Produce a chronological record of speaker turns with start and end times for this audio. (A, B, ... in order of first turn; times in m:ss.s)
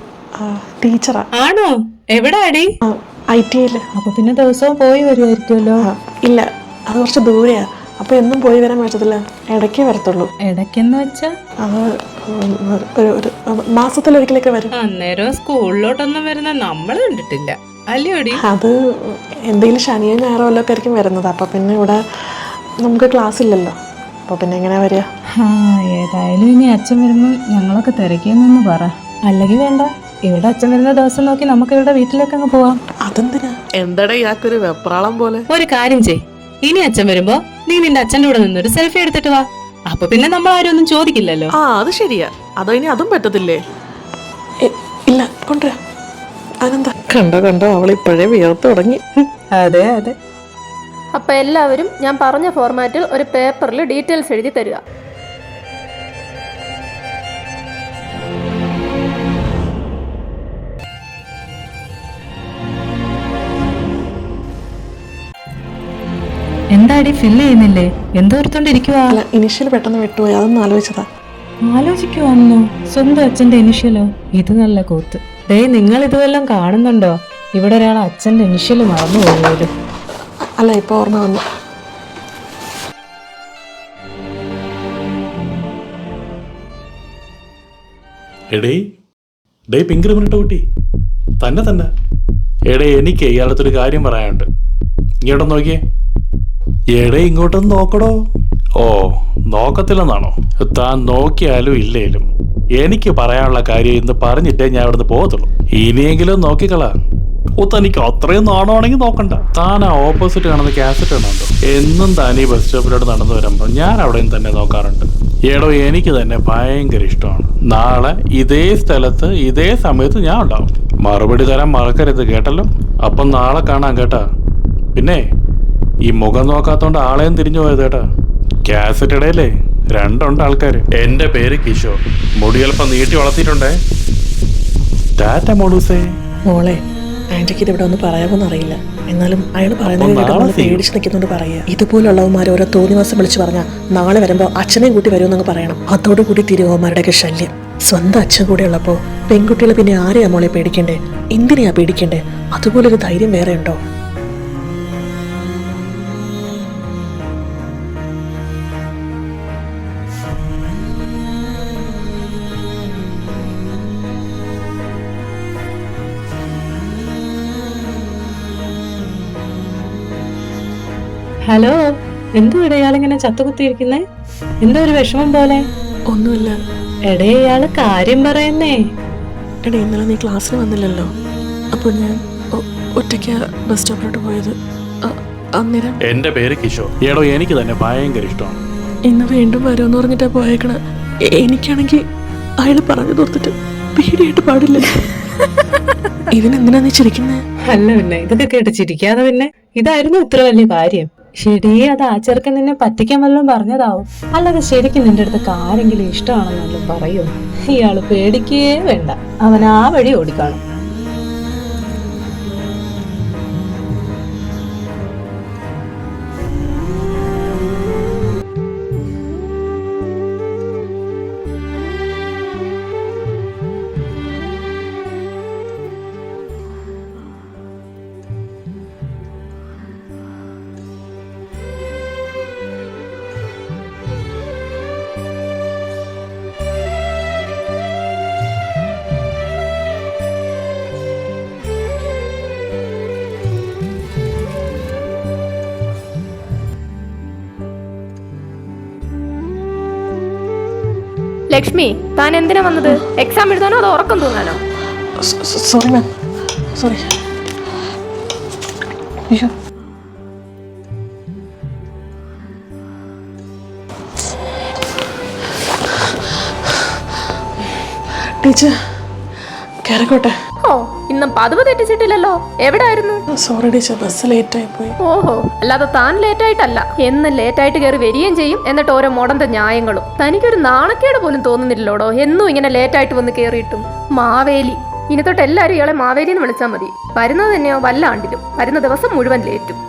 0:00.4-0:01.3 A
0:01.4-0:02.7 B
0:02.9-0:03.8 A
0:04.0-0:05.8 B
0:05.8-0:10.3 A
0:10.5-0:11.3 B
0:11.6-0:14.7 A
0:14.8-0:18.4 B
0:18.4-0:23.7 A
0:24.3-0:25.1 A
0:25.4-0:32.8 B
0:33.0-0:33.6 A
0:33.8-0:35.4 C
0:35.5-0:41.5 B
0:41.6-0:43.6 C
0:44.6-0:45.7 A
0:46.6-0:49.0 A
0:49.4-0:50.2 B
0:51.1-0:54.8 D
1:06.7-1:09.2 B
1:09.1-1:11.0 A
1:11.7-1:19.7 B
1:20.6-1:21.4 A
1:28.5-1:28.8 E
1:29.7-1:30.6 E
1:31.4-1:31.9 E
1:32.7-1:34.4 E
1:35.2-1:35.8 E
1:37.0-1:38.1 E
1:38.8-1:42.3 E
1:42.8-1:46.9 E
1:47.6-2:04.2 E
2:04.9-2:05.2 E
2:06.1-2:08.0 E
2:08.7-2:13.7 E
2:15.2-2:16.0 E
2:16.5-2:16.8 A
2:17.3-2:33.8 A
2:20.0-2:20.8 E
2:51.4-2:51.8 B
2:52.4-2:54.0 B
2:54.6-2:55.6 B
2:56.1-2:56.6 A
2:57.1-2:58.8 B
2:59.6-3:01.1 A
3:01.7-3:06.0 A
3:06.1-3:08.6 E
3:09.0-3:10.8 A
3:11.4-3:12.0 A
3:12.6-3:14.9 A
3:16.3-3:17.4 A
3:17.7-3:30.6 B
4:11.5-4:14.6 D
4:15.2-4:16.1 A
4:16.8-4:17.0 A
4:28.4-4:28.7 A
4:29.8-4:30.3 A
4:30.6-4:33.2 D
4:33.4-4:35.0 A
4:35.0-4:49.8 D